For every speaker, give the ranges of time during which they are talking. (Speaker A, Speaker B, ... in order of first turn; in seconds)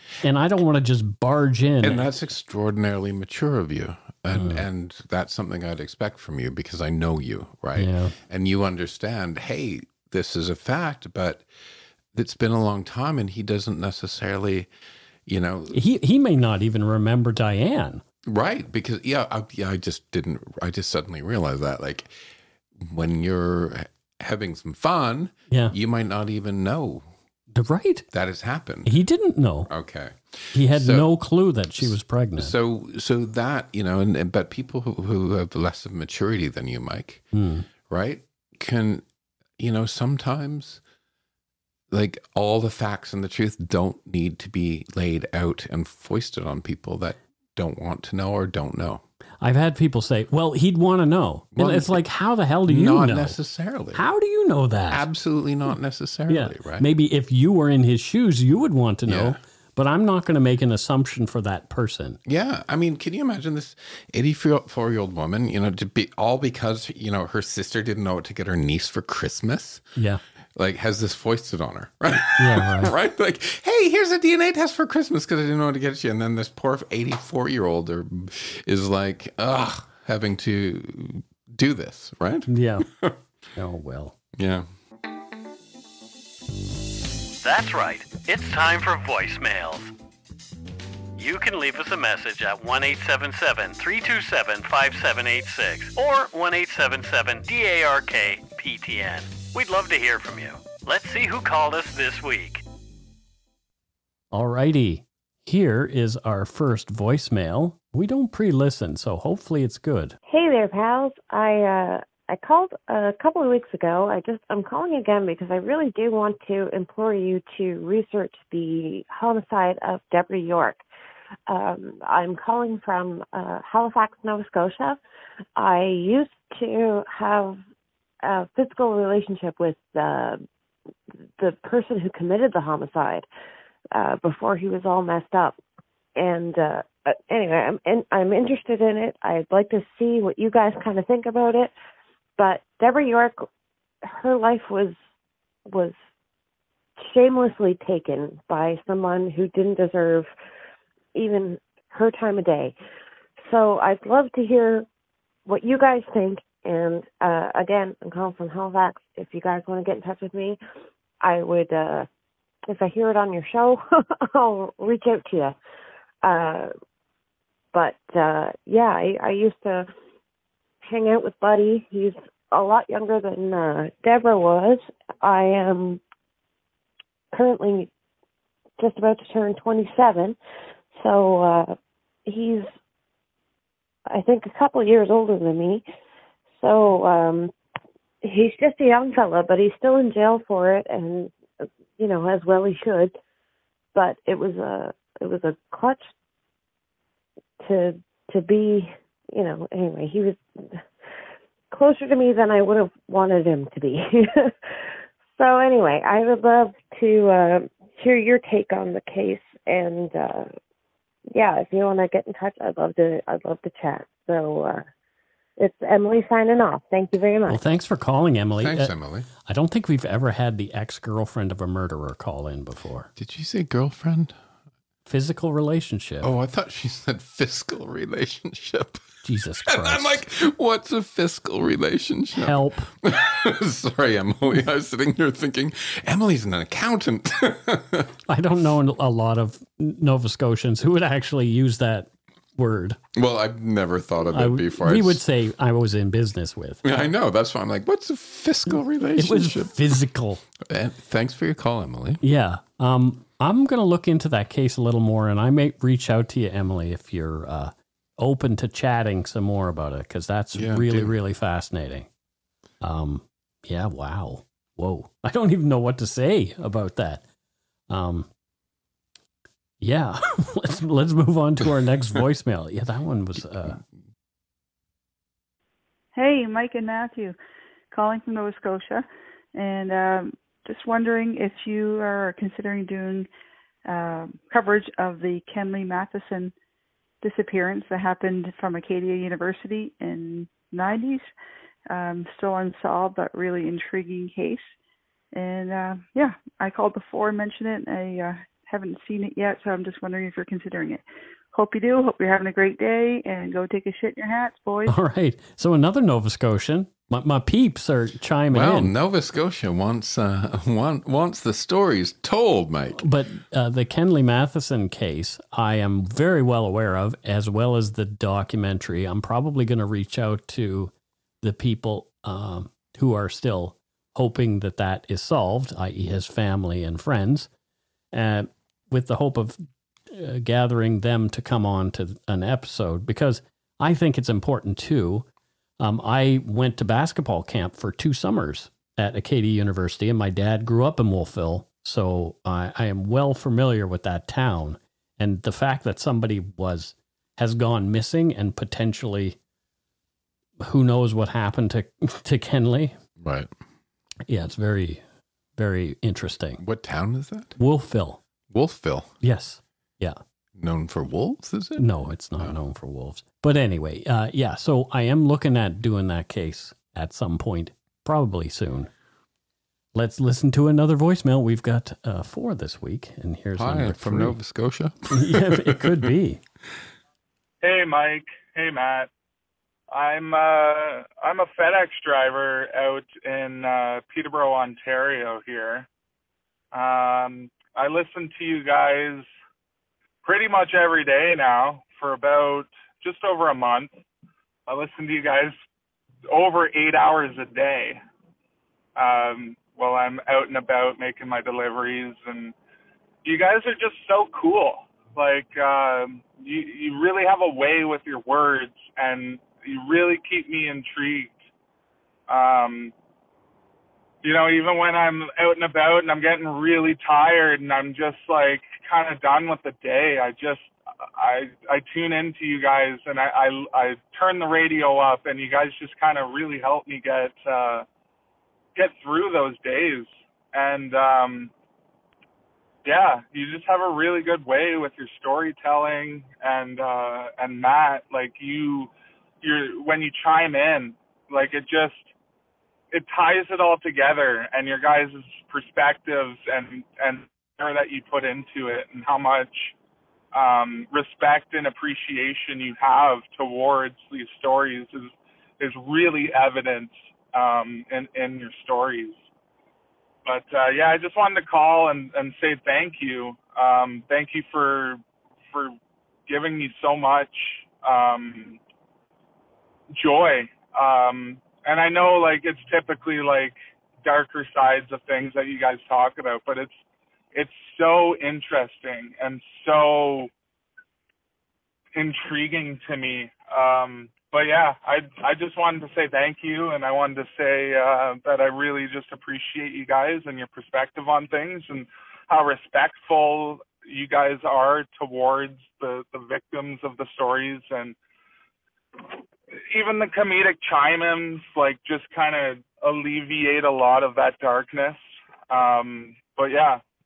Speaker A: 0.2-2.1, 4.3-4.6, 7.8-8.2, 15.7-18.0, 25.5-25.7, 27.5-28.1, 28.9-29.7, 30.5-32.5, 37.3-37.7, 49.4-53.4, 53.9-55.1, 56.3-62.2, 70.0-70.2, 72.4-72.9, 82.5-82.8, 83.5-84.2, 87.4-89.9, 91.2-102.6, 104.3-110.2, 217.5-218.9, 219.4-223.1, 225.1-226.3, 229.2-230.2, 232.3-232.9, 238.3-243.0, 244.3-246.8, 249.2-250.4, 252.2-262.1, 262.8-267.2, 267.9-268.3, 269.8-273.8, 304.9-308.9, 313.0-327.5, 328.1-335.2, 335.8-349.4, 350.6-352.9, 354.3-355.0, 355.6-356.6, 357.6-358.2, 359.2-360.2, 361.8-368.9, 369.9-374.4, 375.1-376.4
Speaker B: 1.8-11.4, 12.1-14.7, 15.2-15.8, 18.2-22.1, 22.8-27.1, 28.1-29.0, 29.7-31.1, 31.8-37.2, 37.9-39.0, 39.6-40.8, 41.9-49.0, 51.5-52.0, 52.6-54.0, 54.9-56.9, 59.0-59.4, 62.2-69.8, 70.5-83.1, 84.3-84.7, 218.6-219.3, 223.2-224.4, 226.2-229.1, 229.6-238.1, 243.1-245.2, 246.8-249.8, 250.6-252.2, 260.5-261.1, 308.5-313.1, 353.2-353.5, 356.6-357.6, 358.5-359.1, 360.6-362.6, 373.6-376.1
Speaker C: 110.3-120.8, 121.5-125.0, 125.5-127.6, 128.2-130.4, 131.4-133.2, 133.9-135.6, 136.2-141.7, 142.4-143.4, 144.0-144.9, 145.7-145.9, 147.0-150.3, 151.1-152.7, 153.4-154.9, 155.4-160.6, 161.2-162.1, 162.7-165.6, 166.2-166.7, 167.7-169.9, 170.8-176.0, 177.3-177.9, 178.8-180.3, 180.9-182.7, 184.1-185.8, 186.6-187.5, 188.2-193.1, 193.9-196.0, 197.6-200.8, 201.7-204.7, 205.3-210.5, 211.3-214.9, 215.6-217.6
Speaker D: 276.1-277.4, 277.9-283.3, 283.9-286.5, 287.2-291.3, 291.9-294.7, 295.3-304.9
Speaker E: 377.6-379.1, 379.9-385.9, 386.7-389.3, 390.2-393.9, 394.7-395.5, 396.3-398.0, 398.9-402.5, 403.2-411.4, 412.3-412.9, 414.2-427.9, 428.7-431.5, 432.8-438.9, 439.4-442.1, 442.9-449.7, 450.3-459.3, 460.2-465.7, 466.3-468.6, 469.9-476.8, 477.3-480.3, 481.9-497.9, 499.7-506.8